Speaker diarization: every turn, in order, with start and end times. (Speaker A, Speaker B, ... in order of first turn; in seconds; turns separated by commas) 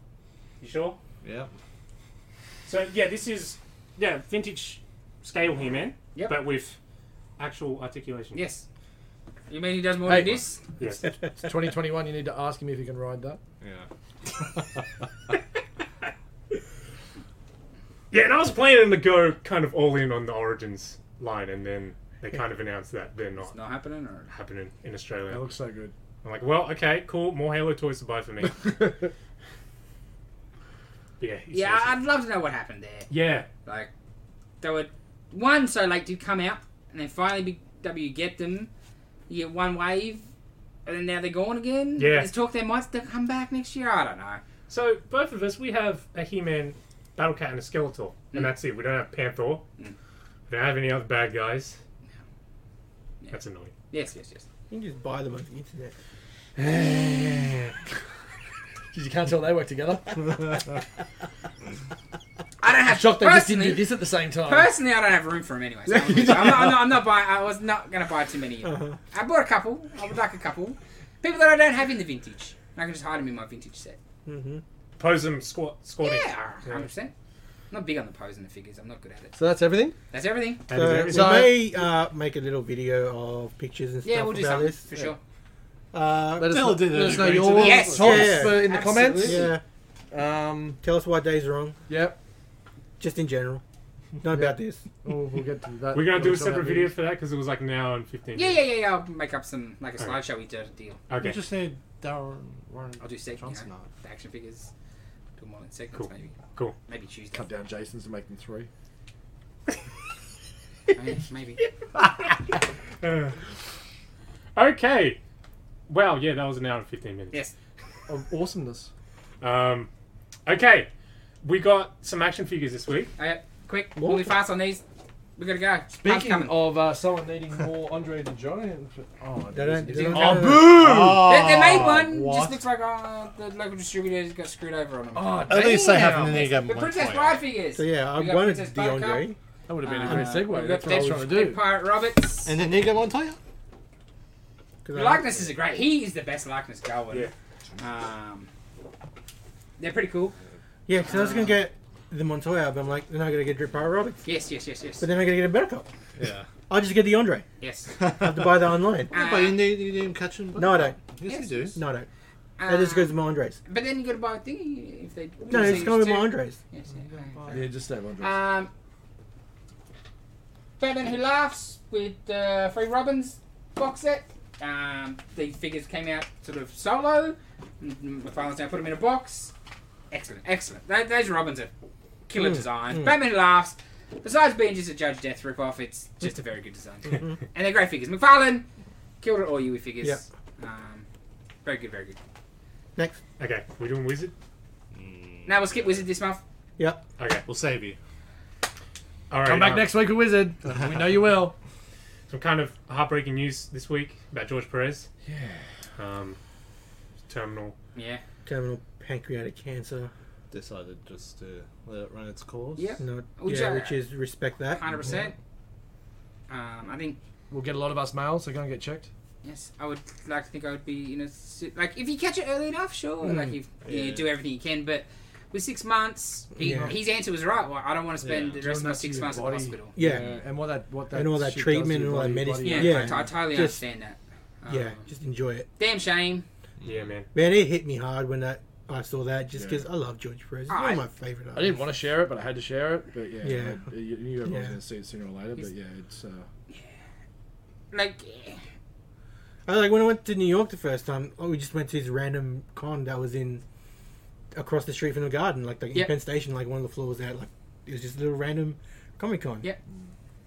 Speaker A: 0.6-1.0, Speaker B: 1.2-1.5, Speaker A: 2.7-6.8, Speaker C: 6.2-6.4, Speaker A: 7.4-8.4, Speaker C: 8.3-8.7, Speaker C: 9.5-10.6, Speaker D: 10.1-10.4, Speaker A: 10.8-11.1, Speaker D: 11.0-13.4, Speaker B: 13.6-14.7, Speaker A: 18.1-23.6, Speaker C: 23.5-24.3, Speaker A: 24.3-25.5, Speaker D: 25.3-25.9, Speaker A: 26.2-28.8, Speaker A: 31.2-32.0, Speaker C: 31.5-33.9, Speaker A: 33.1-33.5, Speaker C: 34.6-38.7, Speaker C: 39.3-40.2, Speaker C: 40.9-44.4, Speaker A: 42.0-42.3, Speaker A: 44.7-49.6, Speaker A: 50.5-51.8, Speaker A: 53.3-53.7, Speaker C: 53.9-54.5, Speaker E: 54.7-56.0, Speaker D: 56.6-57.8, Speaker D: 58.9-60.7, Speaker C: 62.6-63.9, Speaker D: 62.9-64.7, Speaker C: 64.4-74.0, Speaker D: 65.9-66.9, Speaker E: 68.7-68.9, Speaker E: 74.3-74.6, Speaker A: 75.0-76.9, Speaker C: 76.0-77.1, Speaker C: 77.7-79.4, Speaker D: 79.4-80.0, Speaker C: 80.1-80.7, Speaker A: 80.7-81.5, Speaker E: 80.7-84.8, Speaker D: 81.1-81.7, Speaker C: 84.0-85.2, Speaker E: 85.9-86.8, Speaker D: 86.4-89.5, Speaker B: 86.4-88.3, Speaker C: 87.4-89.5, Speaker E: 88.0-89.6, Speaker D: 90.1-90.8, Speaker E: 90.8-91.8, Speaker D: 91.9-92.2, Speaker E: 93.0-93.6, Speaker E: 94.2-94.8, Speaker D: 94.3-97.0, Speaker A: 95.9-98.6, Speaker C: 98.3-101.0, Speaker A: 101.1-101.4, Speaker B: 101.2-103.9, Speaker C: 103.0-104.7, Speaker C: 105.4-106.3, Speaker A: 106.0-106.8, Speaker C: 106.9-107.5, Speaker D: 107.3-108.7, Speaker C: 110.9-111.6, Speaker A: 113.0-113.3, Speaker A: 114.6-115.2, Speaker A: 115.9-117.4, Speaker D: 118.1-118.9, Speaker A: 119.4-119.9, Speaker A: 120.5-120.9, Speaker A: 121.4-123.1, Speaker C: 123.2-124.8, Speaker E: 124.0-124.3, Speaker C: 125.4-126.5, Speaker D: 125.9-131.3, Speaker E: 129.5-130.9, Speaker C: 129.9-130.5, Speaker B: 130.3-132.6, Speaker C: 131.0-139.3, Speaker D: 135.1-136.5, Speaker B: 135.5-137.4, Speaker E: 137.8-139.4, Speaker D: 139.7-141.6, Speaker C: 139.8-142.5, Speaker E: 140.1-140.4, Speaker B: 142.4-143.4, Speaker E: 144.8-145.3, Speaker C: 144.9-148.5, Speaker C: 149.8-150.4, Speaker E: 150.9-154.2, Speaker C: 151.0-151.6, Speaker C: 154.2-155.1, Speaker E: 155.0-155.9, Speaker B: 156.2-156.5, Speaker E: 156.7-157.5, Speaker C: 157.6-157.9, Speaker B: 158.0-158.5, Speaker E: 158.1-159.1, Speaker B: 159.1-161.8, Speaker C: 159.1-159.7, Speaker E: 160.6-161.0, Speaker C: 161.3-161.8, Speaker E: 161.7-162.1, Speaker C: 162.6-168.7, Speaker E: 162.7-163.6, Speaker E: 165.5-166.6, Speaker B: 166.9-167.7, Speaker D: 167.5-168.3, Speaker C: 170.8-179.5, Speaker C: 180.1-181.7, Speaker C: 182.3-188.7, Speaker E: 182.4-183.1, Speaker C: 189.2-191.1, Speaker C: 191.7-192.2, Speaker A: 193.4-194.3, Speaker B: 194.9-196.1, Speaker C: 195.5-196.4, Speaker A: 197.2-197.4, Speaker B: 197.4-198.0, Speaker A: 199.3-199.9, Speaker D: 199.5-201.6, Speaker B: 200.7-201.2, Speaker A: 202.3-205.1, Speaker D: 205.2-205.7, Speaker A: 206.0-206.4, Speaker A: 207.3-207.8, Speaker C: 207.9-208.2, Speaker E: 208.4-210.1, Speaker B: 210.5-213.0, Speaker C: 212.8-214.0, Speaker E: 213.0-214.8, Speaker C: 214.7-215.3, Speaker C: 216.5-217.2, Speaker D: 217.5-219.1, Speaker C: 219.4-229.9, Speaker E: 223.2-223.6, Speaker B: 223.8-224.3, Speaker E: 226.6-227.0, Speaker B: 228.2-228.6, Speaker D: 228.6-233.3, Speaker E: 230.0-230.3, Speaker B: 230.1-230.4, Speaker E: 231.1-233.8, Speaker C: 232.6-235.0, Speaker E: 234.7-235.7, Speaker C: 235.8-236.5, Speaker B: 236.8-237.1, Speaker A: 236.8-237.3, Speaker E: 237.3-241.8, Speaker D: 239.6-239.8, Speaker C: 240.7-241.0, Speaker D: 241.5-246.5, Speaker E: 243.4-243.9, Speaker E: 244.4-244.8, Speaker C: 247.9-248.6, Speaker E: 249.7-253.6, Speaker E: 254.5-259.7